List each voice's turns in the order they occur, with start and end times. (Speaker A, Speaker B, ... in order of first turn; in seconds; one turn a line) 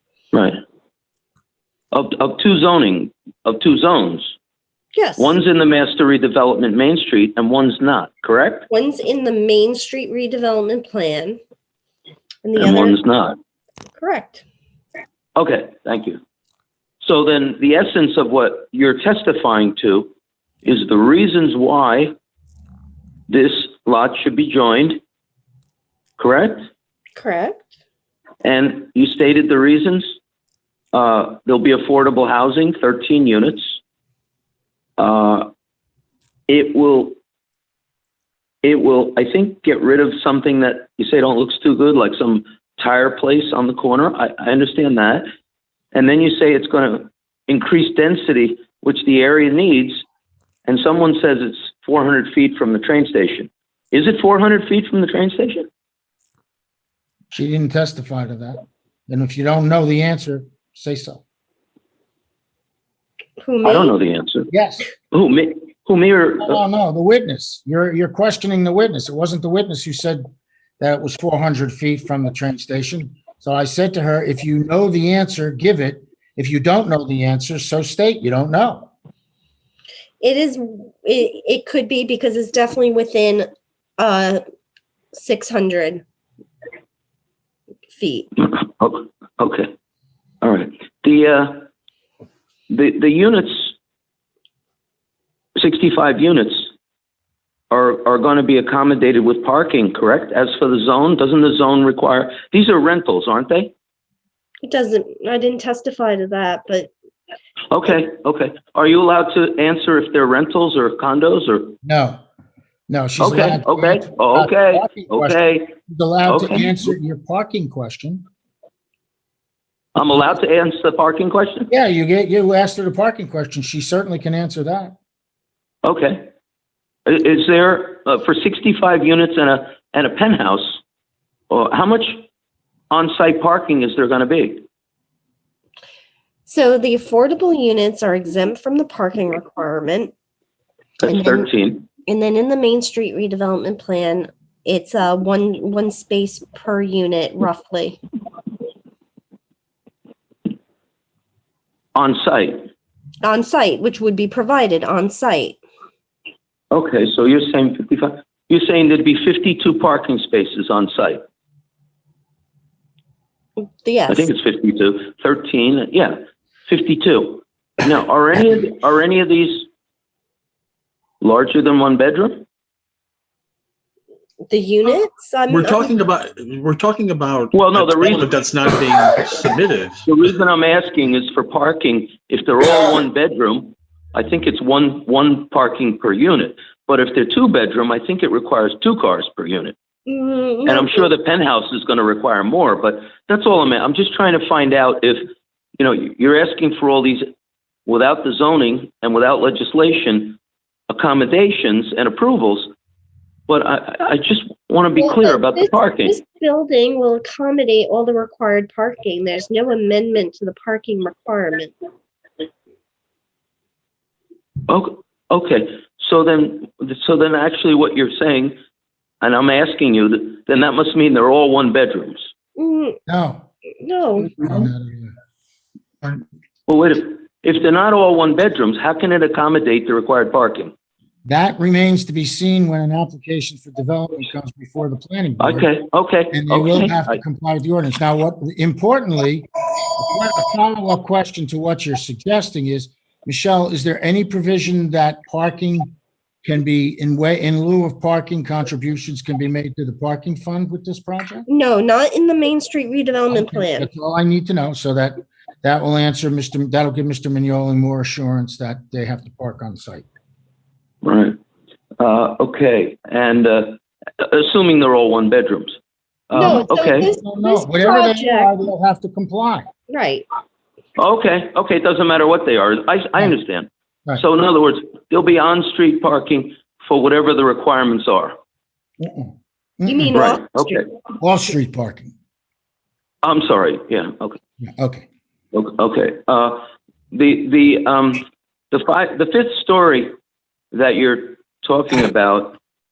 Speaker A: 1.9-4.3
Speaker B: 4.9-5.3
Speaker A: 5.2-8.7
Speaker B: 8.7-11.4
Speaker B: 12.4-13.0
Speaker A: 12.6-13.4
Speaker B: 14.0-14.4
Speaker A: 15.3-16.2
Speaker A: 17.0-20.1
Speaker A: 20.6-22.1
Speaker A: 23.3-25.0
Speaker A: 26.2-26.6
Speaker B: 27.1-27.7
Speaker A: 28.4-30.1
Speaker A: 30.9-33.8
Speaker A: 35.0-35.5
Speaker A: 36.5-37.1
Speaker A: 38.6-45.2
Speaker A: 45.9-50.0
Speaker A: 50.6-55.7
Speaker C: 57.3-61.2
Speaker B: 63.4-63.9
Speaker A: 63.6-64.5
Speaker C: 64.5-64.9
Speaker A: 65.1-66.6
Speaker C: 66.4-70.2
Speaker C: 70.8-78.9
Speaker B: 80.2-84.4
Speaker B: 85.1-86.0
Speaker B: 87.9-88.3
Speaker A: 88.4-89.7
Speaker A: 90.4-91.7
Speaker A: 92.7-93.7
Speaker A: 95.5-96.7
Speaker A: 97.7-103.7
Speaker B: 104.6-106.9
Speaker A: 107.7-111.8
Speaker C: 111.8-112.2
Speaker C: 112.9-118.2
Speaker A: 113.2-115.7
Speaker A: 116.2-116.7
Speaker A: 119.9-121.7
Speaker C: 121.7-124.9
Speaker A: 125.8-126.3
Speaker A: 127.1-130.8
Speaker A: 131.5-132.2
Speaker A: 132.9-134.6
Speaker B: 136.4-140.1
Speaker A: 141.0-141.9
Speaker B: 141.1-141.5
Speaker B: 142.0-148.0
Speaker A: 151.9-152.7
Speaker B: 153.2-155.6
Speaker A: 156.7-161.2
Speaker B: 163.8-164.3
Speaker A: 164.1-169.7
Speaker A: 171.2-172.4
Speaker B: 174.5-175.9
Speaker D: 175.5-180.1
Speaker A: 177.5-178.4
Speaker A: 180.1-189.7
Speaker B: 190.1-191.1
Speaker A: 190.7-195.2
Speaker A: 195.8-197.2
Speaker A: 197.9-200.4
Speaker A: 200.9-202.7
Speaker A: 203.5-206.2
Speaker B: 205.0-211.7
Speaker A: 214.7-218.6
Speaker A: 219.2-222.3
Speaker B: 222.6-223.0
Speaker C: 223.1-223.4
Speaker B: 223.8-224.5
Speaker C: 224.4-225.1
Speaker A: 226.7-230.7
Speaker C: 231.2-235.7
Speaker A: 235.4-237.2
Speaker C: 236.3-245.9
Speaker C: 246.4-251.5
Speaker B: 251.5-253.9
Speaker C: 253.3-260.0
Speaker A: 261.0-261.4
Speaker A: 262.0-265.8
Speaker A: 266.3-267.1
Speaker B: 266.3-268.5
Speaker C: 266.4-269.7
Speaker B: 269.9-270.2
Speaker A: 271.0-278.3
Speaker C: 279.0-280.2
Speaker B: 279.8-280.8
Speaker A: 280.1-280.9
Speaker C: 281.2-282.1
Speaker A: 283.2-284.4
Speaker C: 284.6-285.1
Speaker A: 285.5-290.1
Speaker A: 290.7-292.6